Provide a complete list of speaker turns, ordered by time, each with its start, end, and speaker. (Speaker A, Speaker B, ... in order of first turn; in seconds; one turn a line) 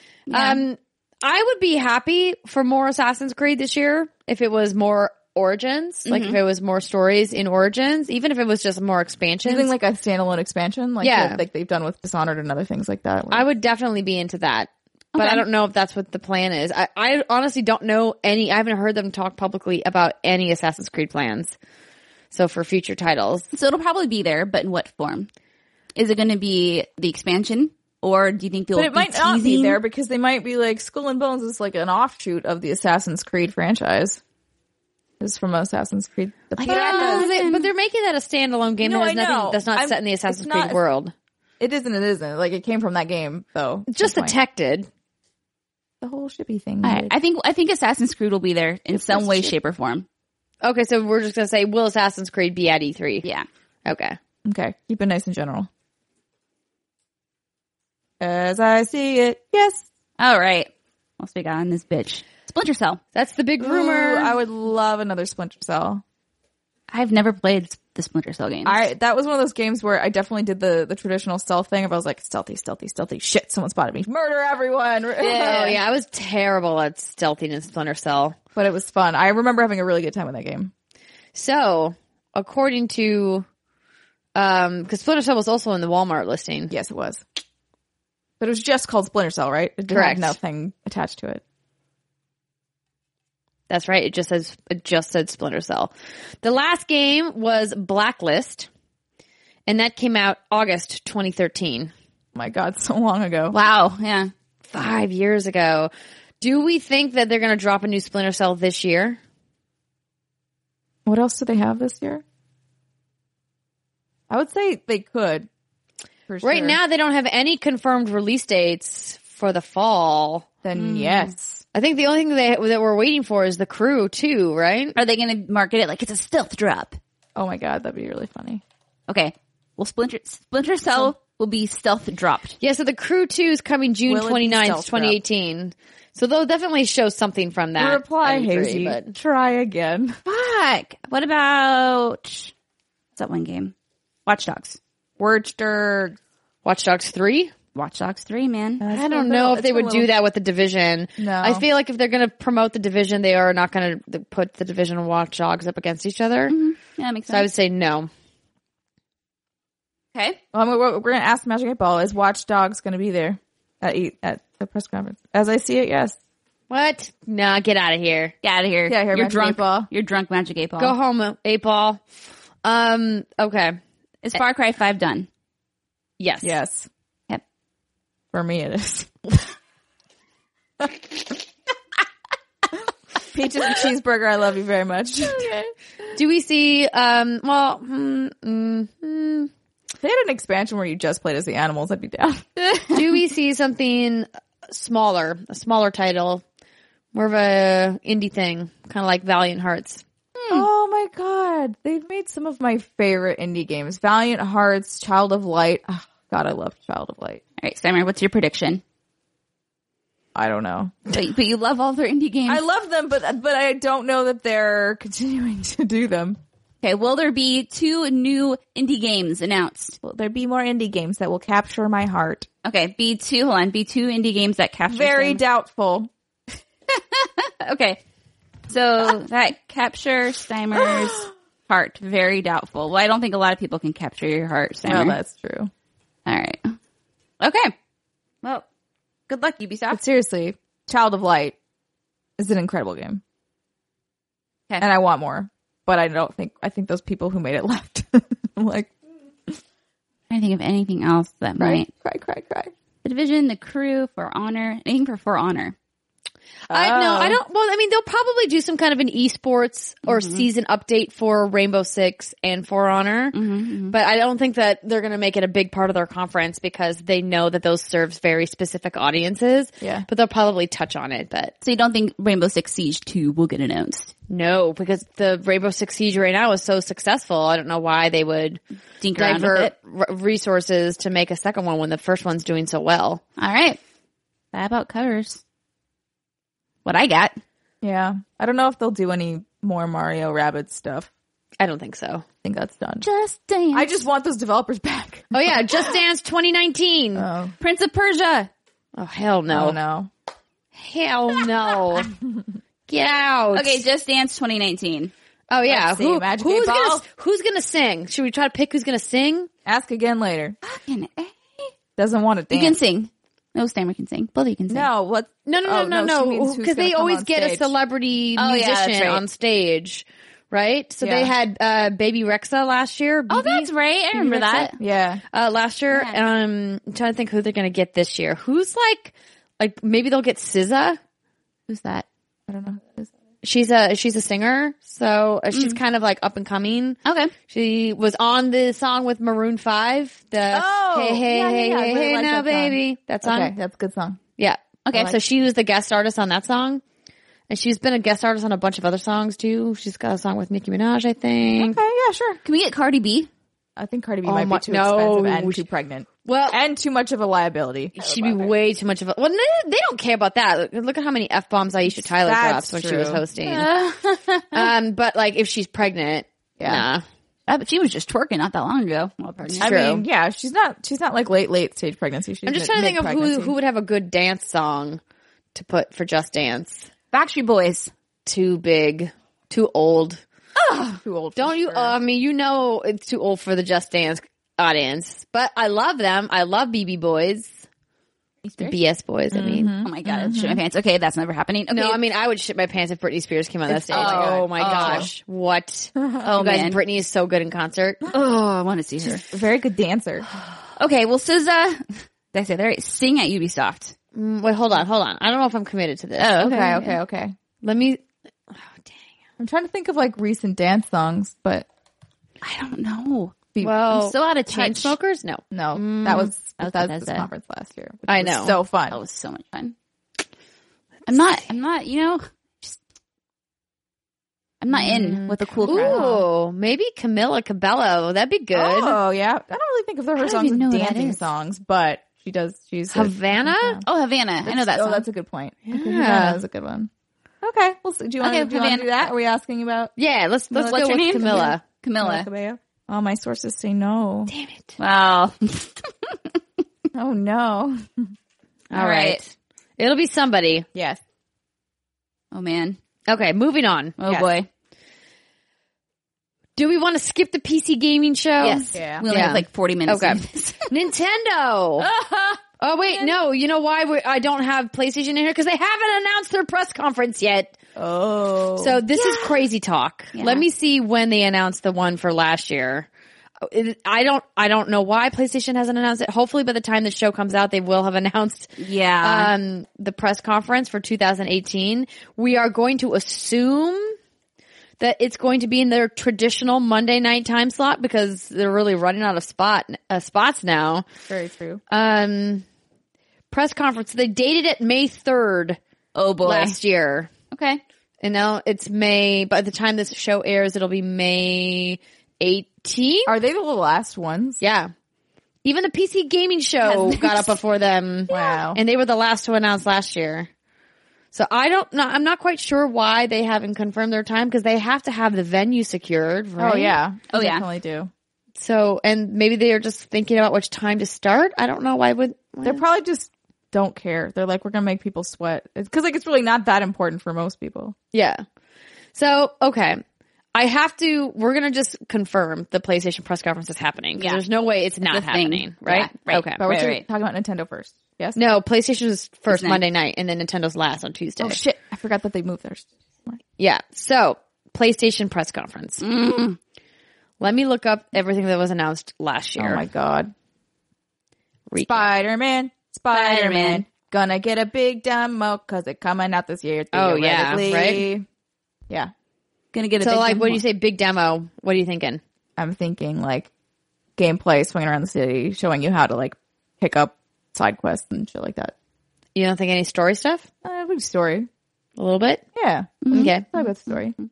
Speaker A: 0.3-0.6
Speaker B: 0.3-9.7
Speaker A: 6.1-6.4
Speaker C: 9.4-13.5
Speaker B: 11.0-11.4
Speaker B: 13.3-21.6
Speaker A: 15.2-15.4
Speaker B: 22.3-23.5
Speaker A: 23.5-25.3
Speaker A: 25.9-29.8
Speaker C: 28.7-34.2
Speaker C: 35.2-37.3
Speaker A: 36.6-37.7
Speaker B: 36.7-41.1
Speaker C: 38.8-40.8
Speaker C: 41.6-44.4
Speaker B: 43.9-44.9
Speaker C: 46.0-47.1
Speaker A: 46.8-50.1
Speaker C: 48.9-49.5
Speaker B: 50.6-53.2
Speaker B: 53.9-54.2
Speaker C: 54.5-55.7
Speaker C: 58.2-59.9
Speaker A: 60.2-63.0
Speaker B: 63.1-64.3
Speaker C: 63.6-66.0
Speaker A: 66.9-68.8
Speaker C: 68.7-75.8
Speaker A: 75.2-75.8
Speaker B: 75.2-78.4
Speaker C: 78.6-80.7
Speaker B: 81.3-83.5
Speaker B: 84.3-86.7
Speaker C: 86.7-87.2
Speaker C: 88.4-91.4
Speaker B: 89.9-90.4
Speaker B: 93.7-98.7
Speaker B: 99.7-101.9
Speaker C: 102.3-103.6
Speaker A: 103.5-104.3
Speaker B: 104.7-109.2
Speaker C: 111.1-112.2
Speaker C: 114.3-115.5
Speaker C: 116.3-116.8
Speaker B: 116.4-120.5
Speaker C: 120.6-121.6
Speaker A: 120.8-121.3
Speaker B: 121.7-125.0
Speaker A: 125.0-127.0
Speaker C: 127.4-128.6
Speaker A: 129.1-132.6
Speaker B: 132.6-139.2
Speaker C: 134.1-135.2
Speaker C: 137.8-140.2
Speaker A: 140.3-142.5
Speaker A: 143.2-143.7
Speaker A: 144.3-144.8
Speaker C: 145.2-146.2
Speaker B: 146.7-147.5
Speaker A: 147.7-148.8
Speaker C: 148.8-150.1
Speaker B: 148.9-156.6
Speaker C: 151.2-151.6
Speaker A: 156.5-157.5
Speaker B: 157.3-158.1
Speaker A: 160.1-160.4
Speaker C: 160.5-166.2
Speaker B: 166.7-168.3
Speaker A: 168.4-170.9
Speaker C: 168.9-169.9
Speaker B: 170.8-172.0
Speaker B: 172.6-173.8
Speaker A: 174.2-175.3
Speaker B: 176.2-176.6
Speaker C: 176.4-176.9
Speaker C: 178.3-179.5
Speaker C: 183.3-185.6
Speaker B: 186.2-189.5
Speaker C: 190.0-192.8
Speaker B: 192.9-196.4
Speaker B: 197.1-200.0
Speaker A: 200.4-200.7
Speaker C: 200.5-207.4
Speaker A: 207.6-208.8
Speaker C: 210.3-211.1
Speaker A: 211.1-212.6
Speaker C: 212.5-216.4
Speaker A: 216.8-220.0
Speaker C: 220.0-222.5
Speaker A: 222.6-225.4
Speaker C: 224.9-226.1
Speaker A: 226.9-228.0
Speaker A: 228.7-235.2
Speaker C: 234.8-235.7
Speaker A: 236.3-236.8
Speaker A: 237.4-237.7
Speaker A: 239.3-240.0
Speaker C: 239.9-241.6
Speaker C: 242.4-243.2
Speaker C: 244.8-248.9
Speaker A: 250.3-251.9
Speaker C: 251.6-252.7
Speaker A: 253.0-255.8
Speaker B: 256.7-263.4
Speaker C: 256.7-257.4
Speaker A: 260.1-260.5
Speaker A: 263.3-263.9
Speaker B: 263.9-271.5
Speaker C: 269.8-270.1
Speaker A: 271.6-274.1
Speaker B: 274.3-278.6
Speaker A: 279.0-279.7
Speaker B: 279.2-283.2
Speaker A: 283.4-283.8
Speaker A: 284.5-285.4
Speaker A: 286.9-287.4
Speaker C: 287.8-291.1
Speaker B: 291.6-292.2
Speaker C: 292.4-293.1
Speaker A: 293.0-293.9
Speaker C: 293.7-296.0
Speaker B: 295.3-297.3
Speaker C: 297.2-297.5
Speaker A: 297.6-298.5
Speaker B: 298.9-299.8
Speaker C: 299.5-300.1
Speaker B: 300.8-302.1
Speaker B: 302.9-303.8
Speaker A: 303.5-305.1
Speaker B: 305.5-309.5
Speaker C: 305.7-307.0
Speaker C: 309.7-310.6
Speaker A: 310.6-311.7
Speaker C: 312.0-312.8
Speaker A: 312.5-314.9
Speaker C: 314.7-317.7
Speaker B: 315.5-324.7
Speaker A: 318.4-319.2
Speaker C: 321.0-321.3
Speaker A: 323.3-324.8
Speaker C: 324.8-325.2
Speaker B: 325.3-331.0
Speaker A: 325.9-326.2
Speaker A: 331.7-332.1
Speaker C: 332.5-333.1
Speaker B: 333.4-343.5
Speaker A: 335.5-335.8
Speaker A: 337.1-337.3
Speaker C: 340.5-344.2
Speaker B: 344.4-346.8
Speaker A: 344.9-345.1
Speaker B: 347.5-351.8
Speaker C: 351.6-352.4
Speaker A: 352.4-353.3
Speaker C: 353.8-358.5
Speaker B: 354.2-355.6
Speaker B: 356.2-356.6
Speaker B: 358.0-363.7
Speaker C: 361.9-363.2
Speaker A: 363.4-364.7
Speaker B: 364.5-367.0
Speaker C: 366.6-366.9
Speaker A: 367.5-369.7
Speaker B: 369.5-370.0
Speaker C: 369.6-373.5
Speaker B: 372.5-375.0
Speaker B: 375.6-376.9
Speaker A: 377.1-377.9
Speaker B: 378.3-380.2
Speaker C: 380.9-382.0
Speaker B: 381.4-387.6
Speaker A: 388.4-388.8
Speaker B: 388.6-389.7
Speaker C: 389.3-390.6
Speaker A: 389.8-392.0
Speaker B: 391.7-398.0
Speaker C: 393.7-395.1
Speaker A: 393.9-395.1
Speaker C: 396.0-396.2
Speaker A: 396.2-396.8
Speaker A: 398.1-399.3
Speaker C: 399.3-400.2
Speaker A: 400.8-403.9
Speaker B: 404.1-406.4
Speaker A: 406.2-407.0
Speaker C: 406.4-407.4
Speaker B: 407.6-408.9
Speaker C: 409.4-411.7
Speaker A: 412.4-415.0
Speaker B: 413.6-416.3
Speaker C: 415.5-419.0
Speaker A: 416.4-417.3
Speaker B: 418.1-418.6
Speaker A: 418.9-419.8
Speaker A: 421.1-422.8
Speaker A: 424.6-426.1
Speaker B: 424.8-429.0
Speaker C: 425.5-426.3
Speaker C: 428.5-433.9
Speaker A: 430.2-431.2
Speaker B: 432.9-433.8
Speaker A: 433.9-435.1
Speaker C: 434.4-436.9
Speaker B: 435.7-436.4
Speaker C: 437.4-439.9
Speaker A: 438.2-438.9
Speaker B: 440.0-441.6
Speaker C: 440.5-444.3
Speaker A: 440.6-442.3
Speaker B: 444.3-444.7
Speaker A: 444.8-446.2
Speaker C: 446.9-448.1
Speaker B: 448.7-450.7
Speaker A: 448.7-449.2
Speaker A: 452.3-452.8
Speaker B: 453.1-454.0
Speaker A: 454.0-454.5
Speaker B: 456.6-461.9
Speaker A: 458.4-460.7
Speaker C: 458.7-459.1
Speaker A: 461.8-462.4
Speaker B: 462.6-467.6
Speaker C: 467.8-468.8
Speaker B: 468.6-472.9
Speaker A: 470.1-470.5
Speaker B: 473.4-484.0
Speaker A: 478.6-479.3
Speaker B: 484.8-490.9
Speaker C: 491.1-491.6
Speaker B: 491.7-492.4
Speaker B: 493.3-495.6
Speaker A: 495.9-496.6
Speaker B: 496.2-497.1
Speaker A: 497.3-497.6
Speaker B: 498.0-503.1
Speaker C: 503.1-504.4
Speaker B: 504.4-504.7
Speaker B: 505.4-510.3
Speaker A: 506.6-507.4
Speaker C: 508.1-508.6
Speaker B: 511.1-516.8
Speaker C: 516.4-517.9
Speaker A: 517.1-517.5
Speaker B: 518.4-522.6
Speaker C: 522.4-527.8
Speaker B: 527.9-528.2
Speaker B: 528.9-529.8
Speaker B: 530.4-536.4
Speaker A: 534.0-534.2
Speaker A: 534.9-536.8
Speaker C: 536.4-538.2
Speaker B: 538.2-541.4
Speaker A: 539.3-539.6
Speaker C: 541.2-543.2
Speaker B: 543.4-545.8
Speaker A: 545.8-546.4
Speaker B: 547.2-549.6
Speaker C: 549.4-550.1
Speaker B: 551.5-551.9
Speaker C: 551.6-558.1
Speaker A: 552.9-553.6
Speaker B: 556.7-557.9
Speaker A: 559.5-560.4
Speaker B: 559.8-562.0
Speaker C: 562.4-563.3
Speaker C: 564.0-568.5
Speaker B: 569.1-570.3
Speaker C: 570.4-571.3
Speaker B: 571.8-572.2
Speaker C: 572.4-574.0
Speaker A: 572.9-573.1
Speaker B: 572.9-573.3